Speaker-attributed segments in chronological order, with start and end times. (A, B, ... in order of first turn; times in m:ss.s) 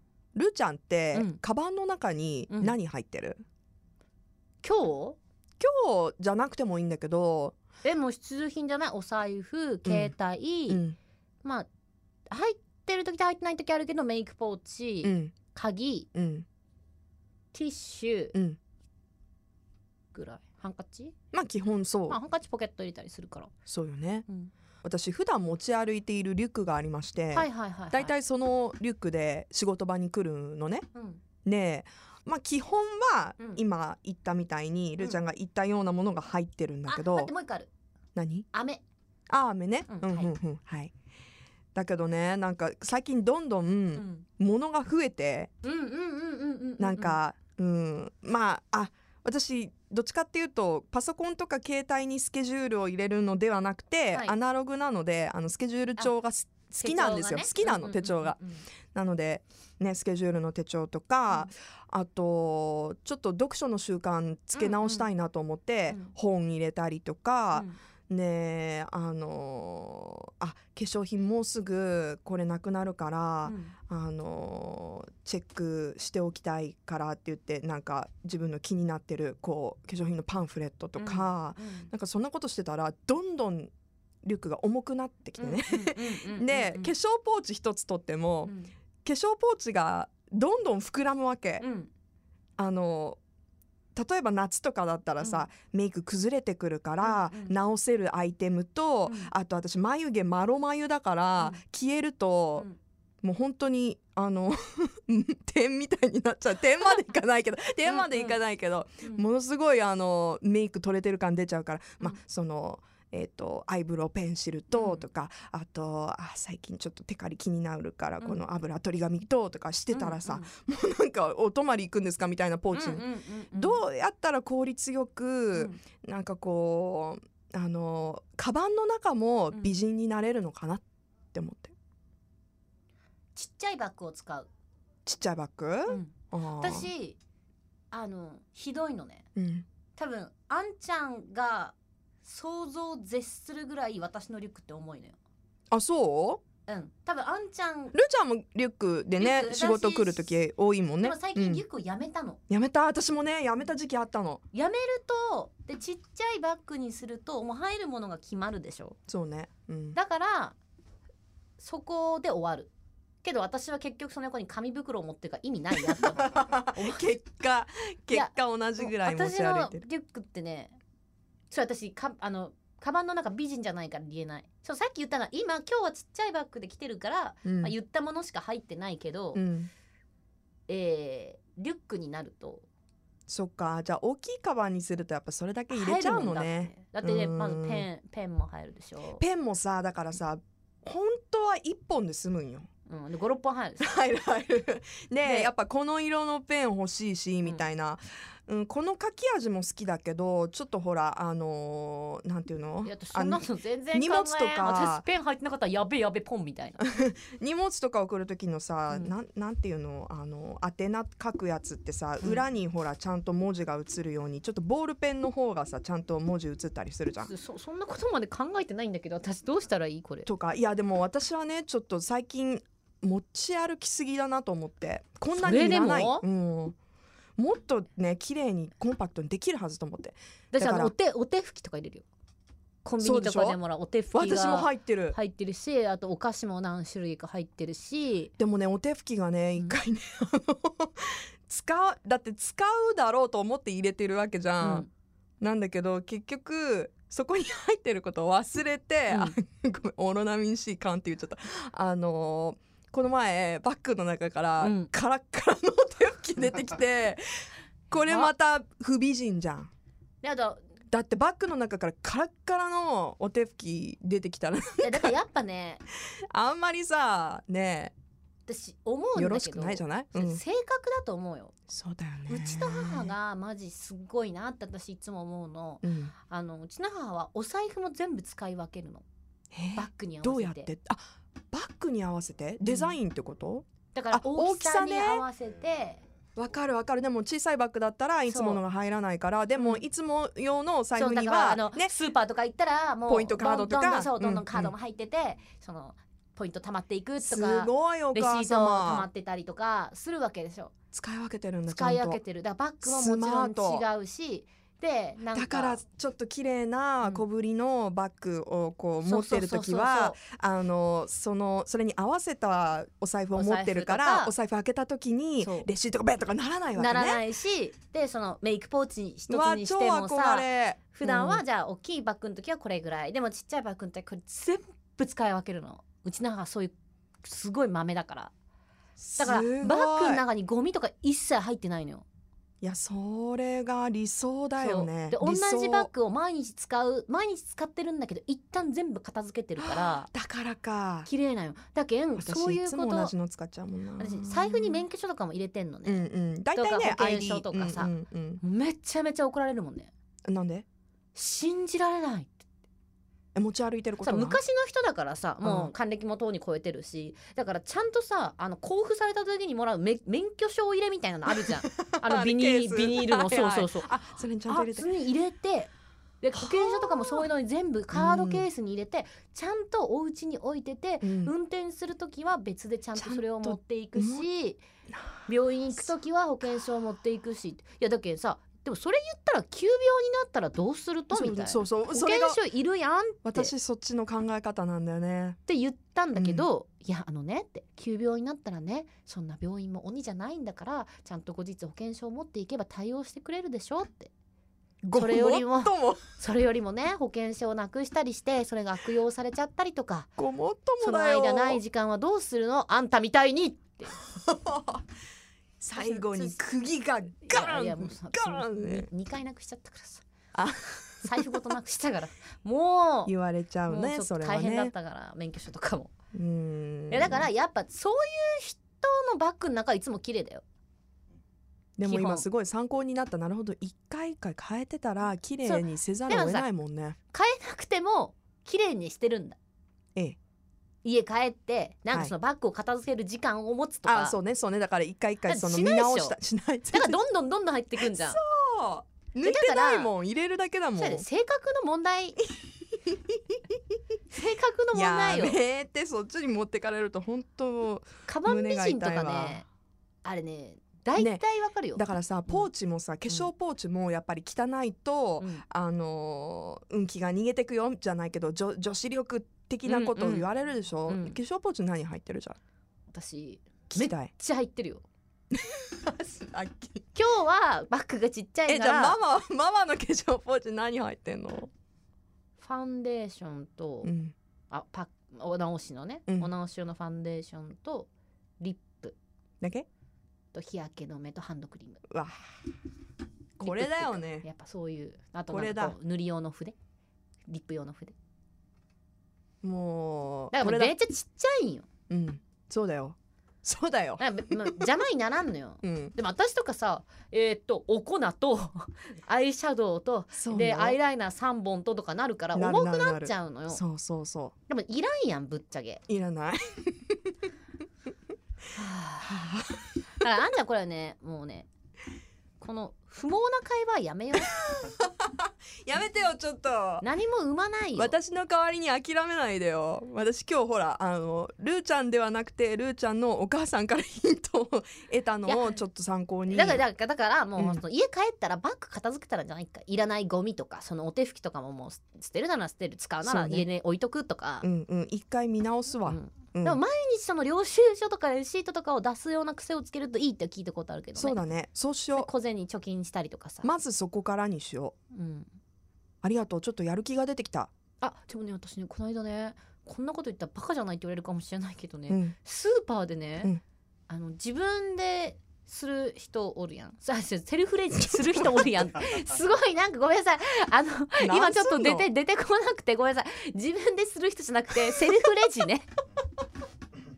0:00.3-0:03.4 A
0:01.1-0:01.4 B
0:02.5-0:02.7 B
0:04.6-0:05.2 B
0:05.6-0:07.6 A
0:07.8-0:10.8 B
0:09.8-0:10.1 A
0:10.7-0:11.0 A
0:11.4-0:11.7 B
0:12.3-0:16.1 B
0:15.0-0:15.4 A
0:16.1-0:16.4 A
0:17.5-0:18.3 B
0:20.1-0:21.1 B
0:21.3-0:22.2 A
0:22.1-0:23.5 B
0:23.7-0:24.2 A
0:24.8-0:30.9 A
0:27.3-0:28.1 B
0:30.9-0:31.2 B
0:31.4-0:37.3 A
0:36.9-0:37.7 B
0:38.1-0:38.5 A
0:38.5-0:38.8 B
0:39.3-0:40.9 A
0:39.9-0:40.3 B
0:41.7-0:45.5 A
0:44.0-0:44.2 B
0:45.6-0:47.2 B
0:46.8-0:58.4 A
0:56.8-0:58.6 B
0:58.9-1:23.7 A
1:04.5-1:05.1 B
1:13.4-1:13.7 B
1:21.0-1:21.9 B
1:24.2-1:28.5 A
1:25.4-1:26.9 B
1:28.4-1:28.7 B
1:29.0-1:31.6 A
1:31.6-1:31.9 B
1:32.6-1:33.2 A
1:33.9-1:42.7 A
1:35.2-1:35.5 B
1:37.0-1:37.5 B
1:39.0-1:39.3 B
1:43.2-2:11.7 A
1:47.9-1:48.4 B
1:54.7-1:55.0 B
1:59.9-2:00.5 B
2:02.7-2:03.8 B
2:05.5-2:05.8 B
2:09.5-2:09.8 B
2:13.3-2:14.5 B
2:15.0-2:16.9 A
2:15.9-2:17.2 B
2:17.9-2:19.2 B
2:19.4-2:19.6 A
2:20.0-2:25.2 B
2:25.7-2:26.4 A
2:26.6-2:27.9 B
2:27.9-2:31.6 A
2:29.2-2:30.3 B
2:31.0-2:32.4 B
2:32.5-2:34.4 A
2:34.5-2:39.0 B
2:39.1-2:40.0 A
2:40.0-2:40.6 B
2:41.6-2:42.7 B
2:43.2-2:47.0 B
2:45.8-2:49.8 A
2:48.1-2:50.8 B
2:51.5-2:59.4 B
2:57.4-2:57.7 A
2:59.3-2:59.7 A
3:00.7-3:02.6 B
3:03.3-3:07.9 A
3:05.7-3:09.2 B
3:09.2-3:12.7 A
3:12.9-3:13.9 B
3:13.8-3:25.0 A
3:15.2-3:15.5 B
3:22.8-3:26.8 B
3:26.8-3:37.3 A
3:37.2-3:40.3 B
3:40.2-3:46.8 A
3:45.4-3:46.2 B
3:47.4-3:50.9 A
3:50.5-3:52.0 B
3:52.8-3:58.3 B
3:53.0-3:53.6 A
3:54.1-3:55.2 A
3:58.4-4:04.8 A
4:04.6-4:04.9 B
4:05.4-4:19.7 A
4:09.1-4:09.4 B
4:14.6-4:14.9 B
4:18.0-4:18.3 B
4:20.2-4:20.6 B
4:20.9-4:25.1 A
4:24.8-4:25.8 B
4:26.3-4:27.9 A
4:28.5-4:31.5 B
4:29.2-4:30.4 A
4:31.7-4:33.1 A
4:32.3-4:39.0 B
4:35.8-4:36.1 A
4:39.5-4:45.2 A
4:39.8-4:40.7 B
4:42.6-4:43.0 B
4:43.9-4:46.0 B
4:46.4-4:51.9 A
4:48.3-4:48.6 B
4:49.6-4:49.8 B
4:51.0-5:00.7 B
4:53.1-4:54.7 A
4:57.2-4:59.1 A
5:00.9-5:02.2 A
5:01.7-5:05.8 B
5:02.8-5:03.8 A
5:05.3-5:17.2 A
5:09.0-5:10.2 B
5:13.3-5:14.3 B
5:15.4-5:15.7 B
5:16.7-5:28.3 B
5:19.3-5:21.4 A
5:29.0-5:30.2 A
5:29.2-5:32.0 B
5:32.6-5:35.9 A
5:34.6-5:40.1 B
5:39.6-5:41.1 A
5:41.0-5:43.1 B
5:42.2-5:44.9 A
5:44.0-5:49.9 B
5:45.8-5:48.4 A
5:50.2-5:50.6 A
5:51.1-5:52.4 B
5:53.3-5:54.4 A
5:54.0-6:05.7 B
5:55.4-5:55.7 A
6:01.4-6:04.9 A
6:06.2-6:14.6 B
6:06.4-6:07.2 A
6:07.9-6:08.4 A
6:11.0-6:11.3 A
6:13.0-6:14.3 A
6:14.9-6:15.2 A
6:15.3-6:23.5 B
6:21.1-6:22.4 A
6:23.2-6:25.4 A
6:25.5-6:34.1 B
6:26.1-6:26.5 A
6:34.8-6:36.0 A
6:34.9-6:40.1 B
6:40.2-6:41.6 A
6:40.8-6:44.0 B
6:44.1-6:44.8 A
6:45.6-6:48.9 A
6:45.8-6:46.4 B
6:47.2-6:50.0 B
6:50.3-6:51.4 A
6:51.0-6:53.1 B
6:53.0-6:54.7 A
6:53.7-6:55.9 B
6:56.1-6:57.3 A
6:56.9-7:00.4 B
7:01.8-7:07.0 A
7:01.8-7:02.2 B
7:05.4-7:06.5 B
7:07.1-7:09.4 B
7:10.8-7:14.2 B
7:13.8-7:17.0 A
7:15.2-7:16.2 B
7:16.7-7:18.2 B
7:17.8-7:21.0 A
7:19.2-7:19.9 B
7:20.8-7:22.2 B
7:22.9-7:23.5 A
7:24.1-7:25.4 B
7:24.7-7:29.4 A
7:28.1-7:29.4 B
7:30.0-7:32.5 B
7:31.0-7:31.2 A
7:31.8-7:42.4 A
7:39.7-7:40.3 B
7:40.9-7:41.2 B
7:42.9-7:44.8 B
7:43.7-7:44.1 A
7:45.3-7:46.8 A
7:46.9-7:49.0 B
7:48.5-7:51.5 A
7:52.4-7:53.9 B
7:53.8-7:54.1 A
7:54.5-7:59.0 B
7:56.1-7:56.3 A
7:59.4-7:59.7 A
8:00.3-8:01.8 B
8:01.9-8:02.2 A
8:03.4-8:06.5 B
8:03.4-8:04.3 A
8:05.3-8:05.8 A
8:07.3-8:07.9 B
8:09.4-8:10.7 A
8:10.3-8:11.7 B
8:11.9-8:14.6 A
8:14.0-8:23.6 B
8:15.6-8:15.9 A
8:20.1-8:20.8 A
8:22.3-8:24.3 A
8:24.5-8:25.8 B
8:25.9-8:27.0 A
8:28.5-8:29.4 B
8:29.1-8:29.6 A
8:30.0-8:31.5 B
8:32.4-8:34.3 B
8:34.2-8:36.8 A
8:36.8-8:37.9 B
8:37.7-8:46.6 A
8:45.3-8:45.6 B
8:46.3-8:54.4 B
8:47.4-8:47.6 A
8:53.0-8:53.5 A
8:54.4-8:56.6 A
8:55.8-9:01.2 B
9:00.9-9:02.1 A
9:01.9-9:03.5 B
9:03.4-9:04.7 A
9:04.9-9:05.3 B
9:06.0-9:07.5 A
9:07.8-9:13.3 B
9:11.9-9:12.1 A
9:13.9-9:25.7 B
9:17.8-9:18.4 A
9:21.0-9:21.9 A